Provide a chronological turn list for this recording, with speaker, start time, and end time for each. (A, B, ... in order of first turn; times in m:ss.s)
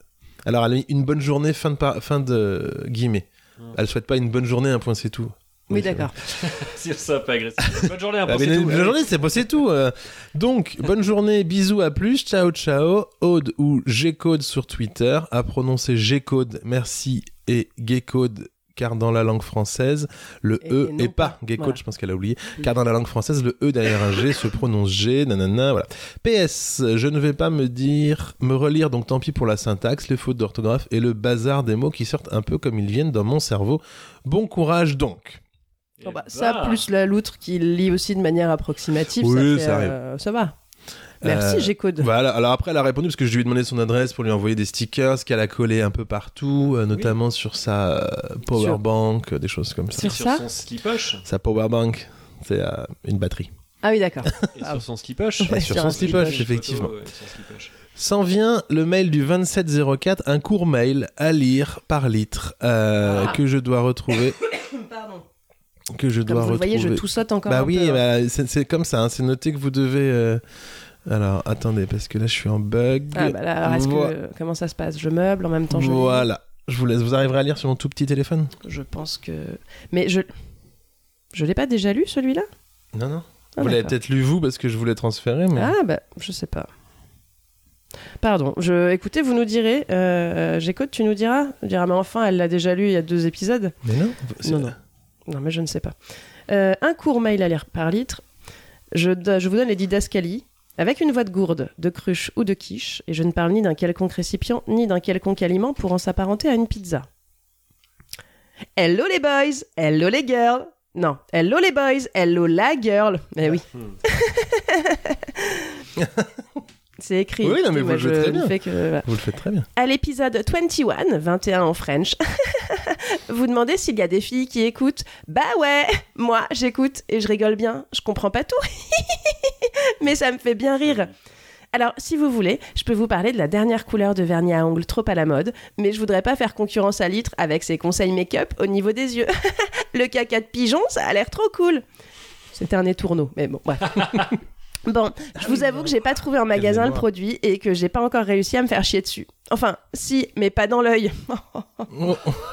0:00.4-0:06.1 A
0:05.7-0:06.1 B
0:06.3-0:09.2 C
0:08.3-0:35.4 A
0:20.6-0:21.8 B
0:36.0-0:36.8 C
0:36.0-0:40.6 B
0:39.2-0:40.0 A
0:41.2-0:42.1 B
0:41.2-0:50.1 A
0:48.6-0:48.8 B
0:50.0-0:50.4 B
0:50.0-0:51.2 C
0:51.2-0:53.5 A
0:53.8-0:54.8 B
0:54.6-0:57.7 C
0:55.4-0:56.5 B
0:55.5-0:56.9 A
0:58.0-1:04.4 A
1:04.8-1:05.2 B
1:05.9-1:10.4 A
1:06.3-1:08.0 B
1:11.1-1:14.1 A
1:13.1-1:16.3 B
1:15.7-1:18.5 A
1:18.6-1:20.3 B
1:21.3-1:22.5 B
1:22.9-1:25.7 A
1:23.6-1:23.9 B
1:25.6-1:26.7 B
1:28.2-1:33.8 B
1:33.8-1:34.7 A
1:34.4-1:34.7 B
1:35.3-1:36.0 B
1:36.5-1:38.2 B
1:38.9-1:47.1 B
1:48.8-1:55.8 B
1:56.0-1:56.3 A
1:57.0-1:59.1 B
1:57.4-1:59.7 A
1:59.8-2:11.1 B
2:11.7-2:21.8 B
2:22.5-2:24.3 B
2:24.8-2:31.9 B
2:26.5-2:27.0 A
2:31.9-2:32.4 A